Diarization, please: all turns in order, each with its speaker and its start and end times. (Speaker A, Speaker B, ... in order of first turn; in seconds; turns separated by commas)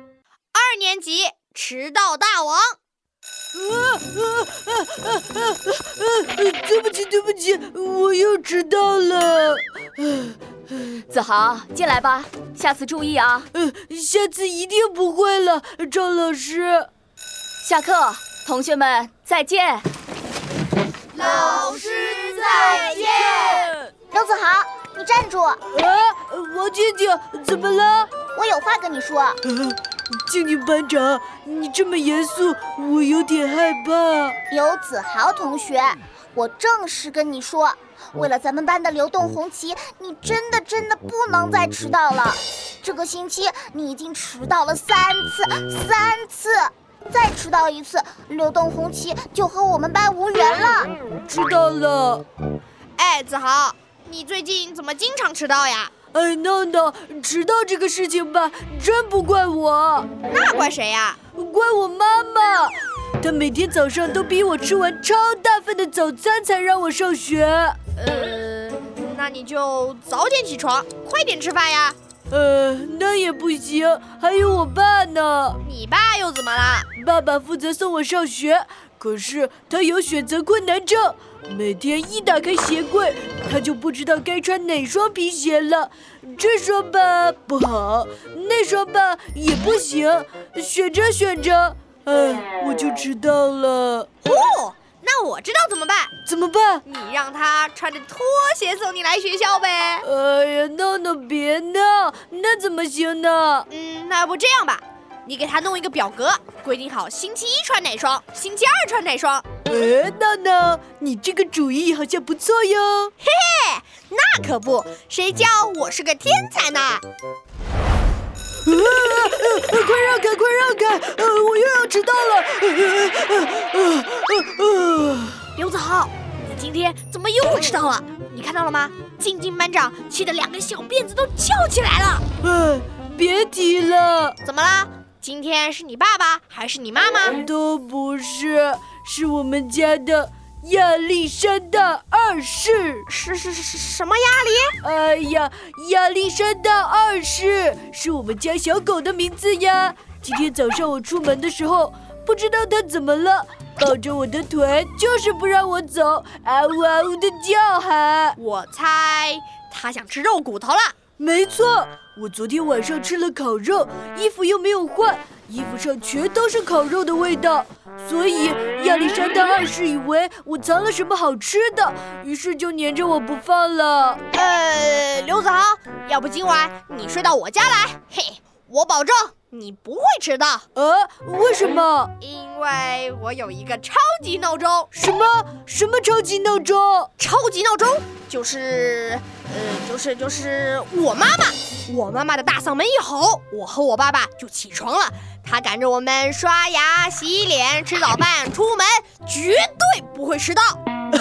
Speaker A: 0.5-2.8, Speaker B: 3.5-11.0, Speaker C: 11.1-13.5, Speaker B: 13.5-16.9, Speaker C: 17.6-19.9, Speaker A: 21.1-23.8, Speaker D: 21.2-21.6, Speaker B: 23.4-23.7, Speaker D: 24.1-25.6, Speaker B: 25.7-28.1, Speaker D: 28.3-29.4, Speaker B: 29.4-34.4, Speaker D: 34.5-50.9, Speaker B: 51.3-52.2, Speaker A: 53.0-55.9, Speaker B: 56.1-60.1, Speaker A: 60.3-61.2, Speaker B: 61.3-67.8, Speaker A: 68.0-72.0, Speaker B: 72.3-75.6, Speaker A: 75.6-76.9, Speaker B: 77.0-94.1, Speaker A: 94.2-96.1, Speaker B: 96.3-96.8, Speaker A: 96.9-100.1, Speaker B: 100.0-103.7, Speaker A: 103.7-109.5, Speaker B: 109.7-113.1, Speaker A: 113.2-117.0, Speaker B: 118.7-125.5, Speaker A: 125.6-132.2, Speaker B: 132.4-134.4, Speaker A: 134.4-137.4, Speaker B: 137.3-143.1, Speaker A: 143.1-144.8, Speaker B: 144.8-158.4, Speaker A: 158.4-160.9, Speaker B: 161.2-174.2, Speaker A: 174.3-180.7, Speaker B: 180.8-182.1, Speaker A: 182.2-184.9, Speaker B: 184.9-187.1, Speaker A: 187.2-200.8